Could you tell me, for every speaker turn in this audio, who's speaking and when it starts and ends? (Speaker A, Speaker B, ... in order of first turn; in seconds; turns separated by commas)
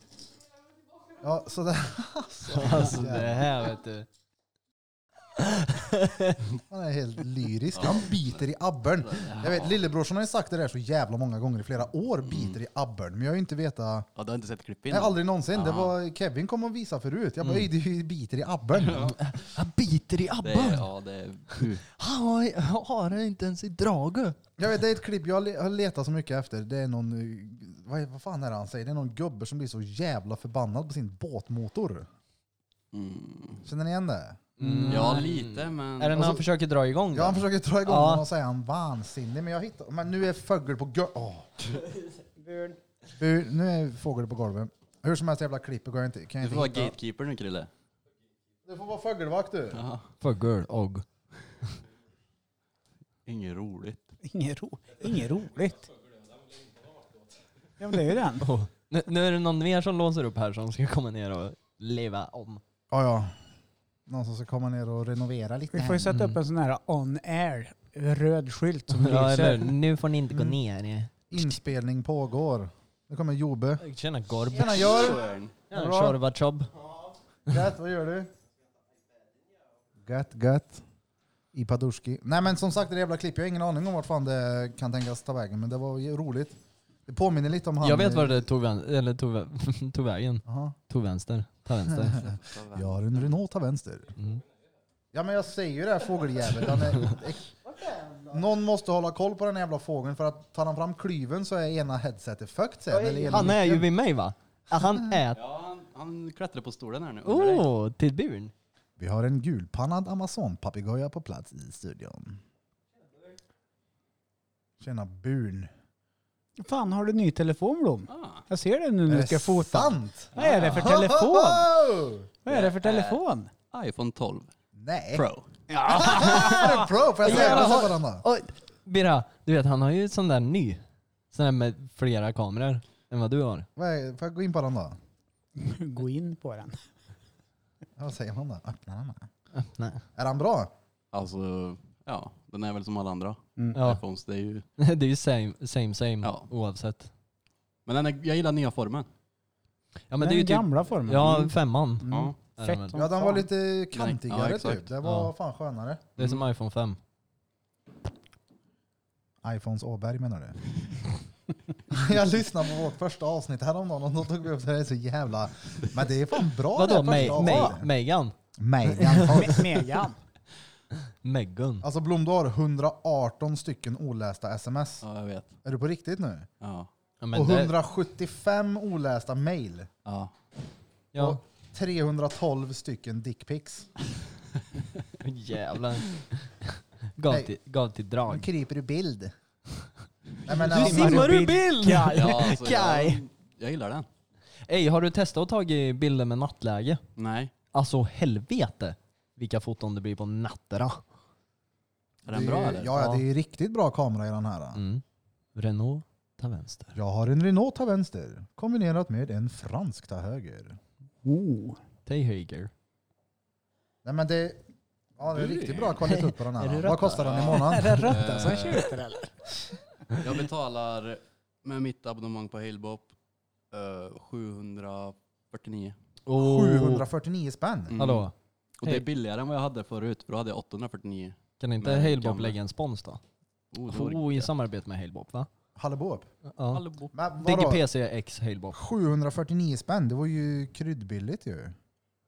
Speaker A: 1.2-3.5, Speaker B: 2.5-4.1, Speaker B: 5.4-6.4, Speaker A: 6.7-14.1, Speaker C: 7.7-8.4, Speaker C: 9.0-9.8, Speaker C: 12.3-12.6, Speaker C: 14.2-15.9, Speaker A: 14.9-19.1, Speaker B: 17.4-17.7, Speaker C: 18.8-19.2, Speaker B: 19.2-20.9, Speaker C: 20.4-21.8, Speaker B: 21.5-24.4, Speaker A: 24.6-32.1, Speaker C: 32.9-33.6, Speaker A: 33.6-34.9, Speaker B: 34.6-38.2, Speaker C: 34.9-36.4, Speaker A: 36.1-36.4, Speaker A: 37.1-41.8, Speaker D: 42.4-42.8, Speaker A: 43.2-47.0, Speaker C: 46.4-47.7, Speaker A: 48.6-49.8, Speaker C: 49.7-50.1, Speaker B: 50.2-51.0, Speaker C: 53.2-54.1, Speaker D: 54.2-55.9, Speaker D: 57.8-58.5, Speaker B: 58.4-62.6, Speaker A: 62.9-63.4, Speaker A: 64.1-66.2, Speaker D: 65.7-69.8, Speaker B: 66.1-66.4, Speaker B: 69.0-71.5, Speaker A: 70.3-70.6, Speaker A: 71.3-73.8, Speaker B: 73.8-76.7, Speaker A: 74.5-76.2, Speaker C: 74.6-75.5, Speaker A: 77.5-78.3, Speaker A: 80.0-80.8, Speaker A: 81.5-88.5, Speaker B: 87.8-92.2, Speaker A: 90.5-90.8, Speaker A: 91.9-94.1, Speaker C: 92.1-93.3, Speaker B: 94.2-94.4, Speaker A: 95.1-97.5, Speaker D: 97.6-98.4, Speaker A: 98.3-103.9, Speaker D: 102.9-103.5, Speaker B: 103.3-105.4, Speaker A: 104.8-105.2, Speaker C: 105.3-107.7, Speaker B: 107.2-108.5, Speaker A: 109.0-112.4, Speaker A: 114.8-115.7, Speaker D: 116.6-121.7, Speaker C: 118.1-118.4, Speaker A: 119.1-122.3, Speaker C: 120.3-120.8, Speaker D: 122.4-123.5, Speaker C: 122.5-124.5, Speaker A: 124.7-125.2, Speaker C: 125.1-125.5, Speaker D: 125.7-126.9, Speaker A: 125.9-128.2, Speaker B: 126.1-126.6, Speaker B: 127.2-133.7, Speaker C: 127.2-127.6, Speaker A: 133.8-135.0, Speaker D: 135.6-136.8, Speaker A: 138.0-139.3, Speaker B: 139.5-140.0, Speaker A: 140.2-140.7, Speaker C: 141.1-144.6, Speaker B: 143.7-144.0, Speaker B: 144.8-147.1, Speaker C: 146.2-146.5, Speaker C: 147.8-149.1, Speaker B: 150.1-153.0, Speaker D: 150.2-153.5, Speaker C: 152.1-152.3, Speaker A: 152.9-156.1, Speaker C: 153.9-154.9, Speaker B: 155.0-155.3, Speaker B: 156.2-157.0, Speaker C: 156.2-156.4, Speaker A: 159.4-160.6, Speaker A: 161.9-167.9, Speaker B: 166.7-168.3, Speaker A: 168.6-169.7, Speaker B: 168.9-169.7, Speaker D: 169.1-170.2, Speaker B: 170.9-171.8, Speaker A: 171.8-175.0, Speaker C: 175.0-175.5, Speaker A: 175.6-176.5, Speaker C: 176.6-176.9, Speaker B: 177.2-177.8, Speaker A: 177.3-179.9, Speaker C: 180.0-180.3, Speaker B: 181.1-181.4, Speaker A: 181.2-183.9, Speaker B: 185.2-188.5, Speaker A: 188.3-189.3, Speaker A: 190.4-191.5, Speaker D: 190.5-192.3, Speaker B: 190.6-193.2, Speaker C: 192.1-194.1, Speaker B: 194.7-197.0, Speaker C: 197.2-197.5, Speaker B: 197.7-201.0, Speaker C: 202.2-203.0, Speaker A: 202.3-204.8, Speaker B: 203.0-203.2, Speaker B: 204.7-205.0, Speaker B: 205.5-206.9, Speaker A: 206.9-210.8, Speaker D: 211.2-211.8, Speaker B: 212.1-212.7, Speaker A: 214.0-214.6, Speaker A: 215.2-218.1, Speaker C: 215.3-215.9, Speaker B: 215.9-218.1, Speaker C: 217.1-219.0, Speaker D: 217.6-219.3, Speaker C: 220.1-223.1, Speaker C: 223.7-225.9, Speaker B: 226.2-227.1, Speaker A: 226.3-228.0, Speaker C: 227.9-228.3, Speaker B: 228.0-229.1, Speaker C: 228.8-232.6, Speaker B: 231.6-233.2, Speaker C: 233.7-234.5, Speaker B: 233.9-235.5, Speaker A: 235.8-236.3, Speaker B: 236.5-236.8, Speaker C: 236.7-237.1, Speaker A: 237.1-237.8, Speaker B: 237.4-238.8, Speaker A: 238.7-241.8